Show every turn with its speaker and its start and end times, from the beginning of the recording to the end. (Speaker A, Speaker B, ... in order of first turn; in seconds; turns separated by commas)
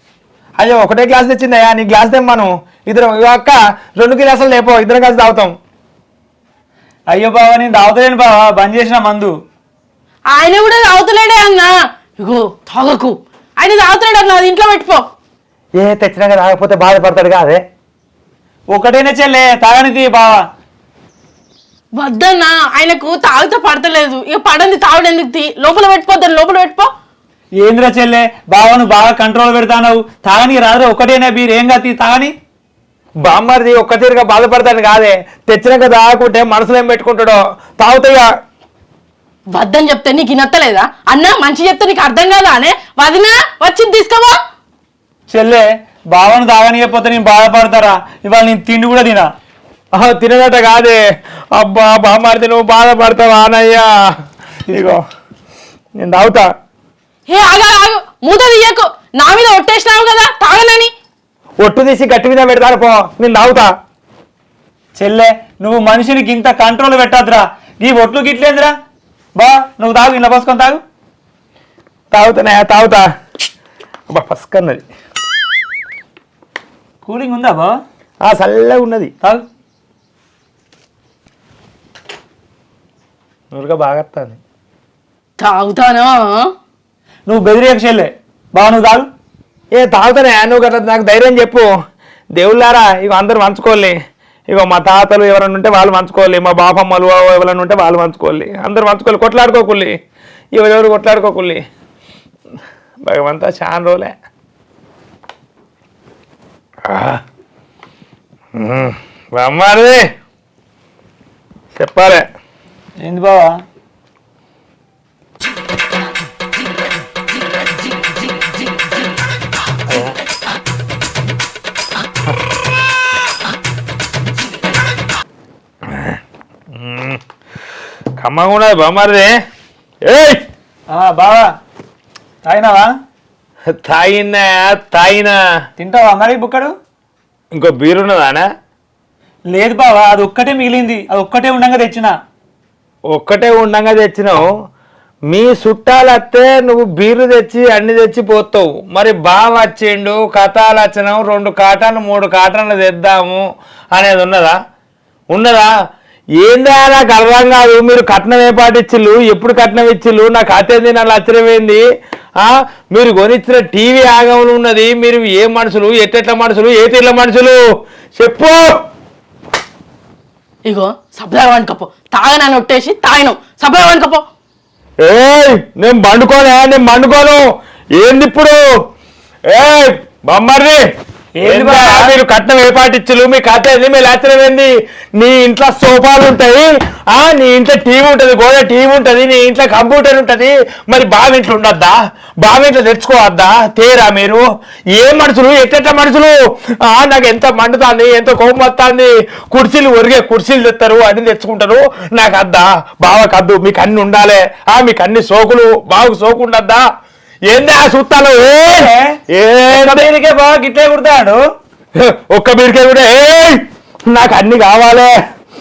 Speaker A: 0.6-5.5, Speaker B: 7.1-9.3, Speaker C: 10.3-15.1, Speaker A: 15.8-17.6, Speaker B: 18.7-20.4, Speaker C: 22.0-26.9, Speaker B: 27.6-32.3, Speaker A: 33.2-38.3, Speaker C: 39.5-44.4, Speaker B: 45.3-49.3, Speaker A: 49.9-51.0, Speaker A: 51.5-53.9, Speaker B: 54.7-55.0, Speaker A: 54.7-55.0, Speaker A: 56.0-56.5, Speaker C: 57.3-60.9, Speaker A: 61.6-63.7, Speaker B: 65.0-68.7, Speaker B: 69.4-70.8, Speaker A: 72.1-73.1, Speaker A: 74.1-74.8, Speaker B: 77.0-77.8, Speaker A: 78.2-79.1, Speaker A: 83.5-84.4, Speaker C: 85.4-86.5, Speaker B: 87.3-89.1, Speaker A: 89.8-91.7, Speaker A: 92.4-94.0, Speaker A: 94.5-99.9, Speaker A: 100.5-101.6, Speaker A: 103.0-104.1, Speaker A: 106.9-107.2, Speaker A: 108.6-110.1, Speaker A: 111.8-112.2, Speaker B: 113.0-113.6, Speaker A: 119.9-120.2, Speaker A: 125.9-126.2, Speaker A: 126.7-127.2, Speaker A: 128.2-129.3, Speaker A: 130.1-130.4, Speaker B: 130.9-131.5, Speaker B: 132.4-132.9, Speaker A: 133.7-135.4, Speaker B: 135.8-136.7, Speaker A: 137.5-138.5, Speaker B: 139.5-142.2, Speaker A: 143.1-144.4, Speaker A: 145.3-153.4, Speaker A: 153.9-154.6, Speaker A: 155.3-155.7, Speaker A: 156.4-161.8, Speaker A: 162.4-167.6, Speaker A: 168.2-168.6, Speaker C: 170.7-174.2, Speaker A: 175.0-177.4, Speaker A: 177.9-178.6, Speaker A: 179.5-180.8, Speaker B: 181.4-182.2, Speaker A: 181.4-194.4, Speaker A: 194.9-206.8, Speaker A: 207.5-210.1, Speaker B: 209.7-211.4, Speaker A: 212.0-215.1